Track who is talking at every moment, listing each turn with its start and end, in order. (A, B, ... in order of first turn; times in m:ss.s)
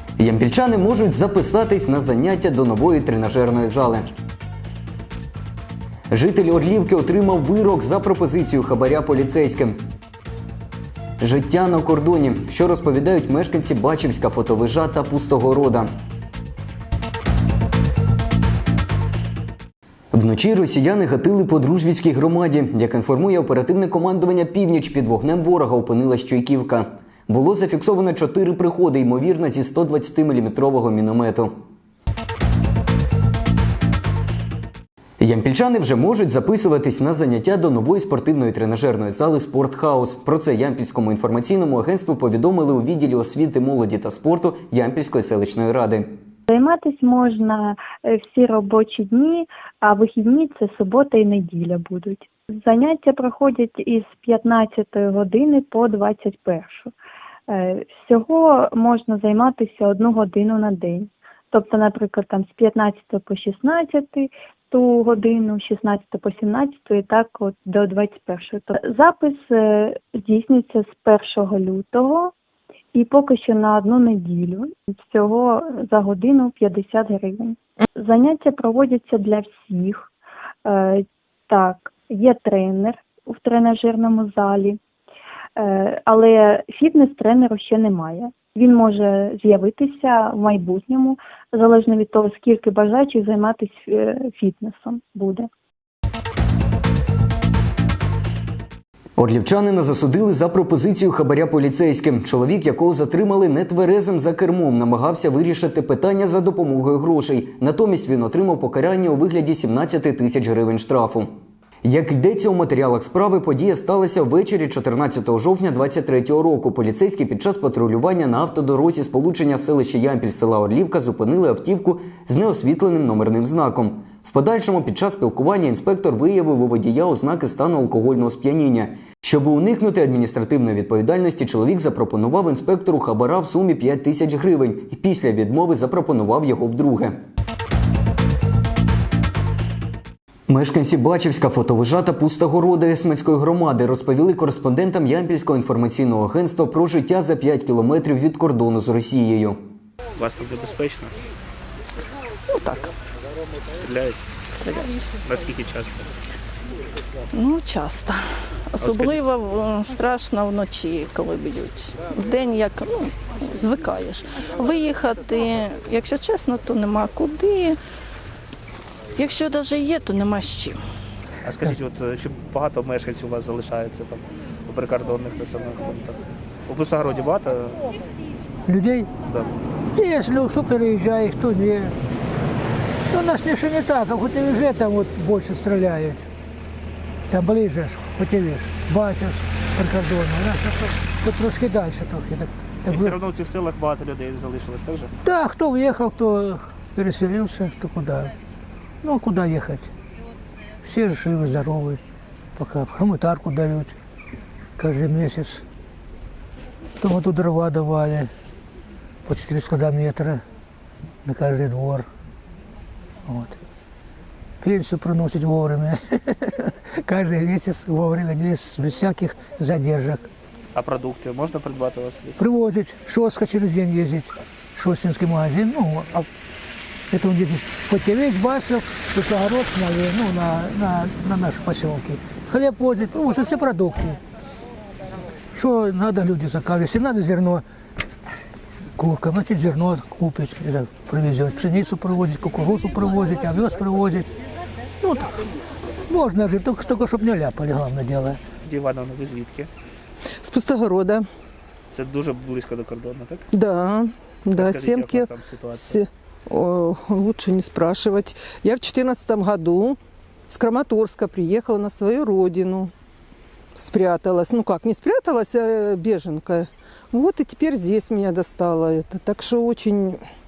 0:00.2-0:04.1 A
0:06.1-0:09.8 A
0:11.2-0:15.9 A
0:20.1-0:31.5 A
0:35.2-0:46.1 A
0:46.5-0:56.9 B
0:57.5-1:12.3 B
1:12.9-1:20.1 B
1:20.6-1:24.8 B
1:25.6-1:35.5 B
1:39.2-1:51.3 A
1:51.8-2:17.2 A
2:20.5-2:29.6 A
2:30.2-2:31.1 C
2:32.5-2:32.9 D
2:33.8-2:34.2 C
2:34.5-2:35.1 D
2:35.2-2:36.1 C
2:37.3-2:47.8 D
2:38.9-2:39.1 C
2:49.2-2:50.8 D
2:51.4-2:57.8 C
2:58.7-2:59.1 E
3:00.0-3:01.9 E
3:03.1-3:06.2 E
3:07.3-3:13.2 E
3:12.9-3:15.1 C
3:15.2-3:18.3 E
3:19.0-3:19.9 E
3:20.8-3:22.0 E
3:22.6-3:23.9 E
3:24.8-3:25.6 E
3:27.0-3:28.3 E
3:29.3-3:30.4 E
3:31.2-3:32.1 E
3:33.3-3:33.6 E
3:34.6-3:40.2 E
3:40.8-3:42.4 C
3:42.4-3:46.3 E
3:47.1-3:54.2 E
3:55.6-3:57.6 E
3:59.0-4:04.3 E
4:05.0-4:05.3 E
4:06.1-4:08.4 E
4:08.6-4:09.7 C
4:10.4-4:11.3 F
4:11.9-4:13.4 C
4:13.5-4:20.0 F
4:14.6-4:15.9 C
4:20.5-4:22.9 F
4:23.8-4:30.2 F